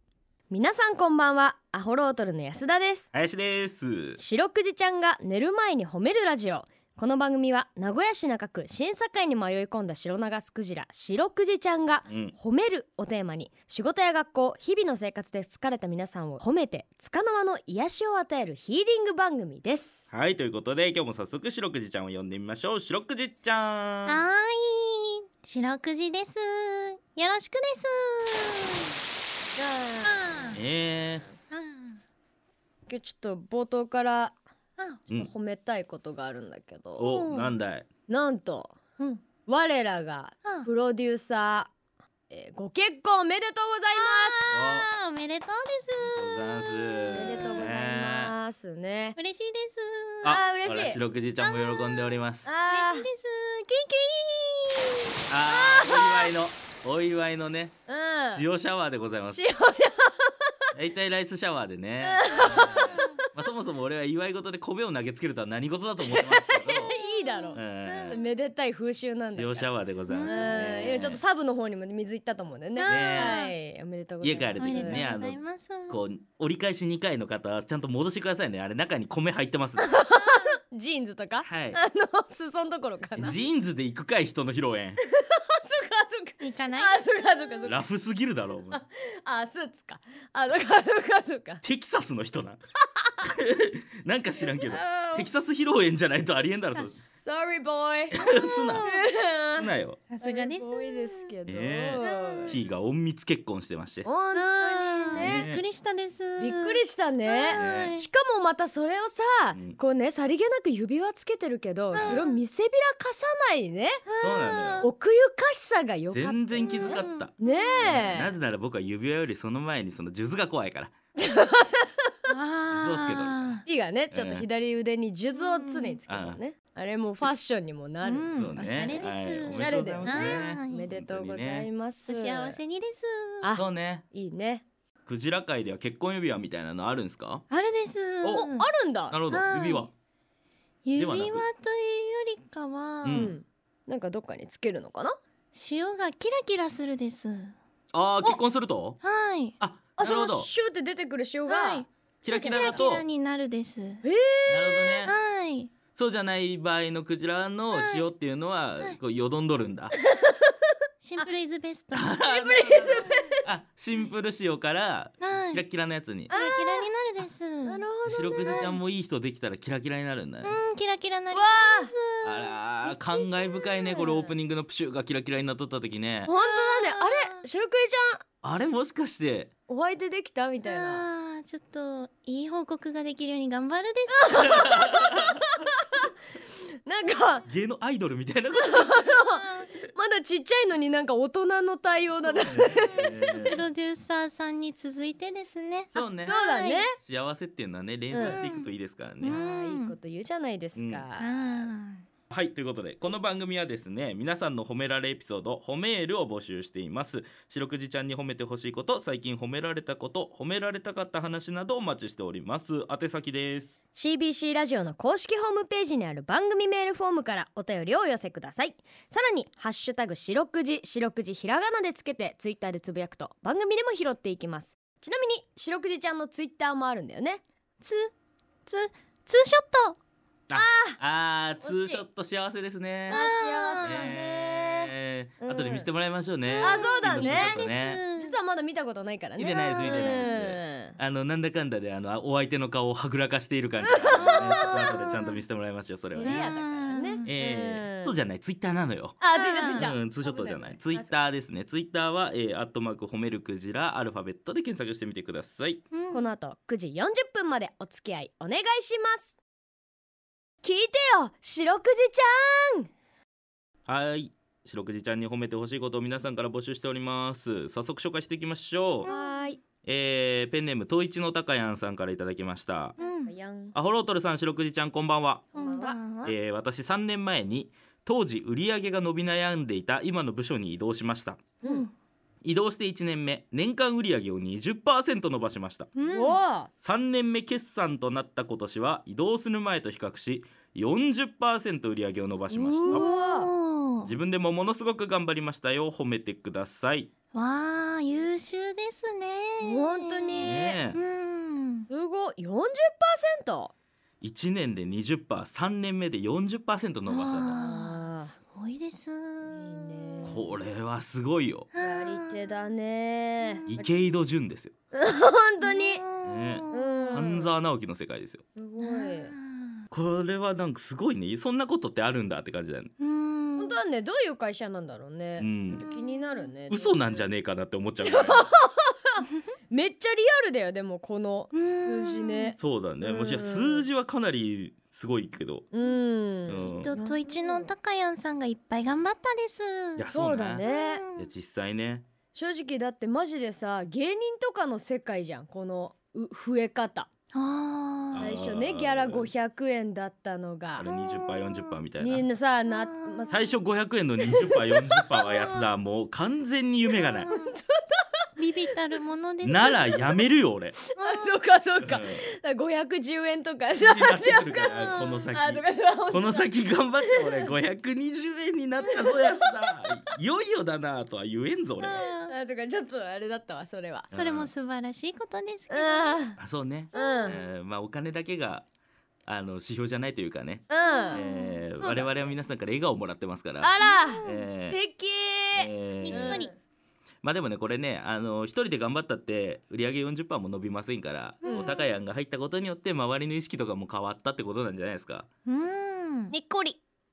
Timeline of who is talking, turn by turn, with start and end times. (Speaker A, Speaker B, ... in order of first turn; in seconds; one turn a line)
Speaker A: 0.5-3.1
Speaker B: 3.1-4.2
Speaker A: 4.2-20.1
Speaker B: 12.1-12.3
Speaker B: 20.1-24.2
Speaker C: 24.1-28.9
Speaker A: 29.6-30.6
Speaker C: 30.0-30.6
Speaker B: 30.5-31.2
Speaker C: 31.5-32.0
Speaker A: 32.9-34.4
Speaker A: 35.1-37.1
Speaker B: 37.0-37.9
Speaker C: 37.0-37.5
Speaker A: 38.1-38.8
Speaker A: 39.5-41.7
Speaker C: 40.4-40.7
Speaker A: 42.3-44.5
Speaker C: 43.9-47.7
Speaker B: 44.5-44.9
Speaker B: 46.0-48.3
Speaker A: 47.1-49.2
Speaker C: 49.1-50.4
Speaker B: 50.2-52.5
Speaker A: 50.2-51.0
Speaker C: 51.4-55.1
Speaker A: 52.4-53.1
Speaker B: 55.3-57.8
Speaker A: 55.5-56.3
Speaker A: 57.9-58.4
Speaker B: 58.3-59.4
Speaker A: 59.3-60.5
Speaker B: 60.7-66.9
Speaker A: 62.0-63.1
Speaker C: 62.4-63.1
Speaker A: 66.0-69.7
Speaker C: 67.2-68.2
Speaker B: 67.5-68.2
Speaker B: 69.3-71.2
Speaker C: 70.1-71.2
Speaker A: 70.2-75.1
Speaker C: 72.8-73.5
Speaker B: 72.9-73.4
Speaker B: 74.2-79.9
Speaker C: 74.6-76.0
Speaker A: 79.8-83.4
Speaker C: 80.1-80.5
Speaker B: 81.4-81.8
Speaker B: 83.2-85.0
Speaker A: 85.1-87.8
Speaker C: 86.4-87.0
Speaker B: 87.7-88.8
Speaker A: 88.7-91.6
Speaker B: 91.6-92.6
Speaker B: 93.2-96.9
Speaker A: 94.4-95.3
Speaker A: 97.1-99.7
Speaker B: 98.1-98.9
Speaker B: 99.5-100.0
Speaker C: 100.1-101.3
Speaker A: 100.2-102.6
Speaker B: 101.5-104.1
Speaker C: 102.0-102.6
Speaker A: 104.0-105.4
Speaker C: 104.3-108.1
Speaker B: 105.1-105.6
Speaker A: 106.4-114.0
Speaker B: 107.5-107.9
Speaker B: 109.5-109.8
Speaker C: 111.9-112.3
Speaker C: 114.1-114.9
Speaker B: 114.2-114.9
Speaker A: 114.8-118.3
Speaker B: 116.1-120.9
Speaker C: 116.7-117.8
Speaker A: 121.2-122.2
Speaker C: 122.3-123.6
Speaker B: 122.7-123.6
Speaker A: 123.7-132.6
Speaker B: 124.1-124.5
Speaker C: 125.3-126.0
Speaker B: 126.1-126.4
Speaker C: 128.0-130.9
Speaker B: 128.3-131.7
Speaker C: 132.1-133.5
Speaker A: 133.4-134.6
Speaker B: 133.6-134.0
Speaker B: 135.1-137.4
Speaker C: 137.5-138.7
Speaker B: 138.2-138.5
Speaker A: 138.3-139.2
Speaker B: 139.1-139.9
Speaker C: 139.3-139.9
Speaker C: 140.8-143.3
Speaker B: 140.9-141.4
Speaker B: 143.0-143.3
Speaker A: 143.1-145.2
Speaker C: 145.5-147.5
Speaker B: 147.9-149.0
Speaker C: 149.0-149.6
Speaker B: 149.6-150.5
Speaker A: 150.0-152.8
Speaker C: 151.5-154.0
Speaker B: 152.2-153.0
Speaker A: 154.0-155.0
Speaker B: 154.5-155.1
Speaker C: 155.0-155.7
Speaker B: 155.9-159.9
Speaker C: 157.7-158.0
Speaker A: 160.2-160.5
Speaker C: 161.0-162.2
Speaker B: 161.9-166.3
Speaker A: 162.2-163.4
Speaker C: 165.2-165.6
Speaker A: 166.3-166.9
Speaker C: 166.3-167.8
Speaker A: 167.6-168.8
Speaker B: 168.1-170.6
Speaker C: 168.5-168.7
Speaker C: 170.4-174.3
Speaker A: 171.3-171.9
Speaker B: 172.2-176.3
Speaker A: 176.2-178.2
Speaker C: 176.3-177.4
Speaker B: 178.4-179.5
Speaker A: 179.7-181.0
Speaker C: 180.6-184.7
Speaker A: 184.3-186.1
Speaker B: 184.8-185.4
Speaker A: 186.8-187.5
Speaker B: 187.5-189.0
Speaker A: 188.6-193.6
Speaker C: 189.2-189.7
Speaker B: 192.4-193.6
Speaker C: 192.7-196.8
Speaker B: 195.9-196.3
Speaker A: 195.9-197.0
Speaker B: 197.0-199.4
Speaker A: 198.1-198.4
Speaker C: 198.1-199.9
Speaker A: 199.2-201.3
Speaker B: 200.7-201.0
Speaker C: 201.2-202.0
Speaker B: 202.3-213.8
Speaker A: 213.9-227.4
Speaker C: 227.8-228.1
Speaker C: 228.7-230.0
Speaker B: 230.5-233.2
Speaker A: 230.5-231.0
Speaker A: 231.6-232.0
Speaker C: 233.1-234.1
Speaker A: 233.1-235.9
Speaker B: 233.8-238.0
Speaker C: 236.4-238.3
Speaker A: 236.6-237.6
Speaker A: 238.2-241.0
Speaker B: 239.4-246.5
Speaker C: 239.6-240.3
Speaker A: 243.8-245.1
Speaker C: 244.1-244.9
Speaker A: 246.1-248.1
Speaker C: 246.2-247.3
Speaker B: 247.2-255.8
Speaker A: 249.2-251.2
Speaker C: 249.3-249.9
Speaker C: 255.9-256.3
Speaker A: 256.1-259.4
Speaker A: 260.6-262.9
Speaker B: 263.9-269.1
Speaker C: 269.0-269.5
Speaker A: 269.0-269.6
Speaker B: 269.8-272.9
Speaker C: 273.0-273.3
Speaker A: 273.0-273.7
Speaker B: 273.7-275.5
Speaker A: 275.5-276.0
Speaker C: 275.5-276.3
Speaker B: 276.2-281.4
Speaker C: 281.6-281.9
Speaker B: 282.4-285.9
Speaker C: 285.9-286.4
Speaker A: 286.1-286.7
Speaker B: 286.8-293.1
Speaker A: 292.5-293.5
Speaker C: 292.9-294.1
Speaker B: 294.0-297.1
Speaker C: 297.3-301.9
Speaker A: 299.6-300.8
Speaker B: 300.4-301.0
Speaker A: 301.9-303.7
Speaker B: 304.2-307.6
Speaker C: 307.1-310.4
Speaker A: 307.5-308.3
Speaker A: 309.4-310.5
Speaker B: 310.2-311.7
Speaker C: 311.7-312.5
Speaker A: 311.8-313.9
Speaker B: 313.7-314.7
Speaker A: 314.9-316.0
Speaker C: 315.6-317.3
Speaker B: 316.2-318.4
Speaker A: 316.7-317.6
Speaker A: 318.6-319.3
Speaker C: 318.8-319.8
Speaker B: 319.9-322.9
Speaker C: 323.0-323.8
Speaker A: 323.6-327.2
Speaker B: 325.4-325.8
Speaker C: 325.8-326.5
Speaker B: 326.7-328.5
Speaker A: 328.0-333.9
Speaker C: 331.5-332.6
Speaker B: 332.6-335.6
Speaker A: 335.7-337.7
Speaker B: 336.4-336.9
Speaker C: 336.6-340.1
Speaker B: 339.9-340.6
Speaker A: 340.1-341.0
Speaker C: 340.6-341.3
Speaker B: 341.1-342.0
Speaker A: 342.3-347.1
Speaker C: 347.3-348.3
Speaker B: 348.1-349.3
Speaker A: 348.1-350.9
Speaker B: 350.8-352.3
Speaker C: 350.9-351.8
Speaker A: 352.0-353.5
Speaker C: 352.6-353.3
Speaker B: 353.3-357.3
Speaker A: 354.2-355.4
Speaker A: 357.0-358.2
Speaker C: 357.2-357.6
Speaker C: 358.4-360.0
Speaker B: 359.4-360.8
Speaker A: 360.9-367.5
Speaker C: 361.0-361.3
Speaker B: 361.8-362.2
Speaker B: 363.8-372.0
Speaker C: 364.7-365.3
Speaker A: 368.8-369.9
Speaker C: 371.8-372.3
Speaker A: 372.3-374.1
Speaker B: 374.1-374.5
Speaker C: 374.1-376.2
Speaker A: 375.7-376.4
Speaker B: 376.4-378.6
Speaker A: 376.9-377.4
Speaker C: 376.9-377.4
Speaker B: 379.2-383.7
Speaker A: 380.7-381.2
Speaker C: 380.8-382.0
Speaker A: 381.8-382.1
Speaker A: 383.6-386.6
Speaker C: 383.8-384.4
Speaker B: 384.2-384.8
Speaker B: 385.5-386.4
Speaker C: 386.0-386.5
Speaker B: 387.2-395.3
Speaker C: 391.4-391.9
Speaker A: 391.4-391.7
Speaker C: 395.4-396.3
Speaker A: 396.3-396.8